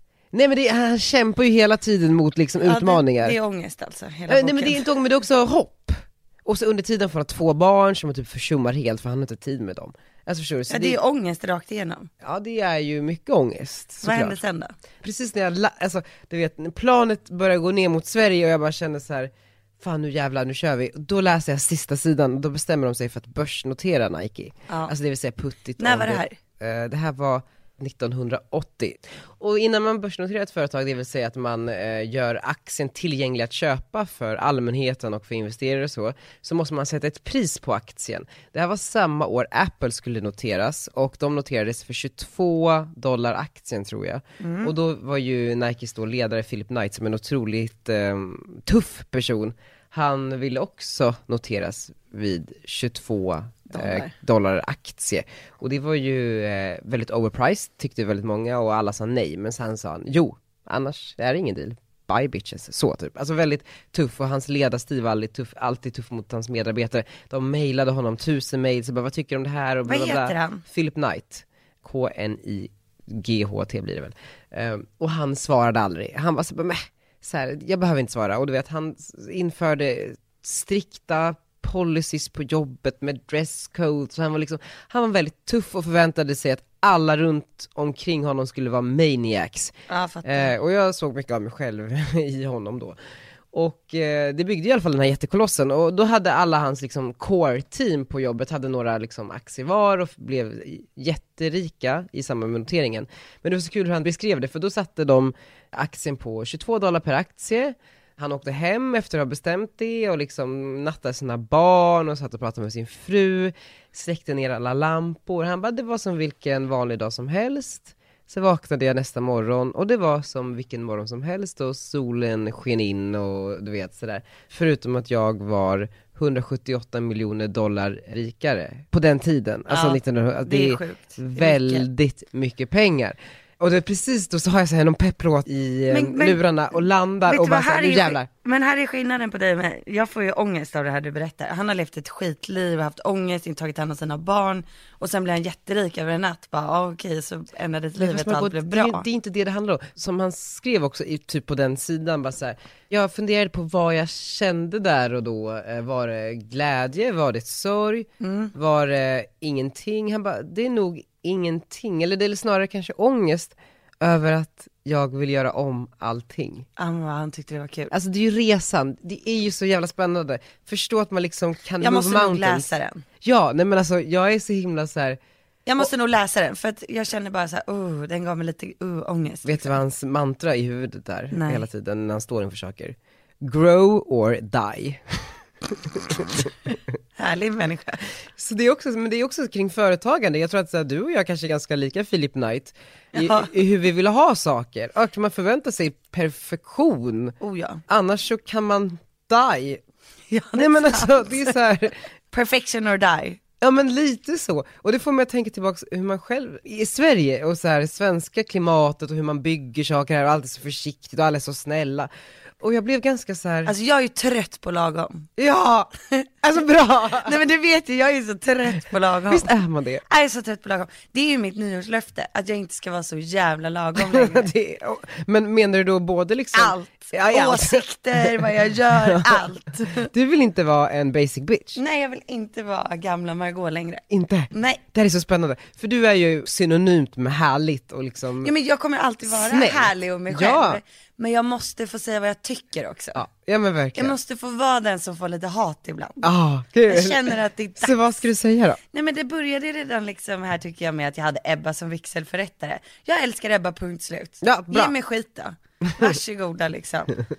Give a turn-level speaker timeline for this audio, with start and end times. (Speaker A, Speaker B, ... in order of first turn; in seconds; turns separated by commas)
Speaker A: 0.3-3.4, Speaker B: 2.6-4.8, Speaker A: 4.3-11.0, Speaker B: 10.7-12.1, Speaker A: 12.2-14.4, Speaker B: 14.0-14.7, Speaker A: 15.0-89.7, Speaker B: 24.7-24.9, Speaker B: 25.8-26.4, Speaker B: 44.4-44.7, Speaker B: 53.7-54.1, Speaker B: 69.8-70.6, Speaker B: 89.9-90.5, Speaker A: 90.2-93.0, Speaker A: 93.5-138.3, Speaker B: 129.7-131.9, Speaker B: 135.9-136.4, Speaker B: 137.3-149.1, Speaker A: 148.0-166.7, Speaker B: 158.2-158.5, Speaker B: 166.8-167.9, Speaker A: 167.9-172.7, Speaker B: 171.8-173.0, Speaker A: 173.2-175.2, Speaker B: 175.7-179.8, Speaker A: 179.4-185.0, Speaker B: 181.3-181.7, Speaker A: 186.0-186.2, Speaker B: 187.2-188.0, Speaker A: 188.4-197.3, Speaker B: 193.2-193.5, Speaker B: 197.4-197.8, Speaker A: 197.9-199.8, Speaker B: 200.3-201.5, Speaker A: 200.5-202.0, Speaker B: 202.3-203.4, Speaker A: 203.6-213.7, Speaker B: 213.7-215.3, Speaker A: 215.4-215.9, Speaker A: 216.4-217.4, Speaker B: 217.2-219.5, Speaker A: 219.3-220.0, Speaker B: 220.1-224.5, Speaker A: 224.0-231.8, Speaker B: 226.5-230.1, Speaker B: 231.8-234.8, Speaker A: 234.1-238.5, Speaker B: 238.4-243.3, Speaker A: 239.3-240.8, Speaker A: 243.2-244.2, Speaker B: 243.9-246.3, Speaker A: 246.2-248.8, Speaker B: 246.9-248.0, Speaker B: 248.9-257.1, Speaker A: 254.4-254.9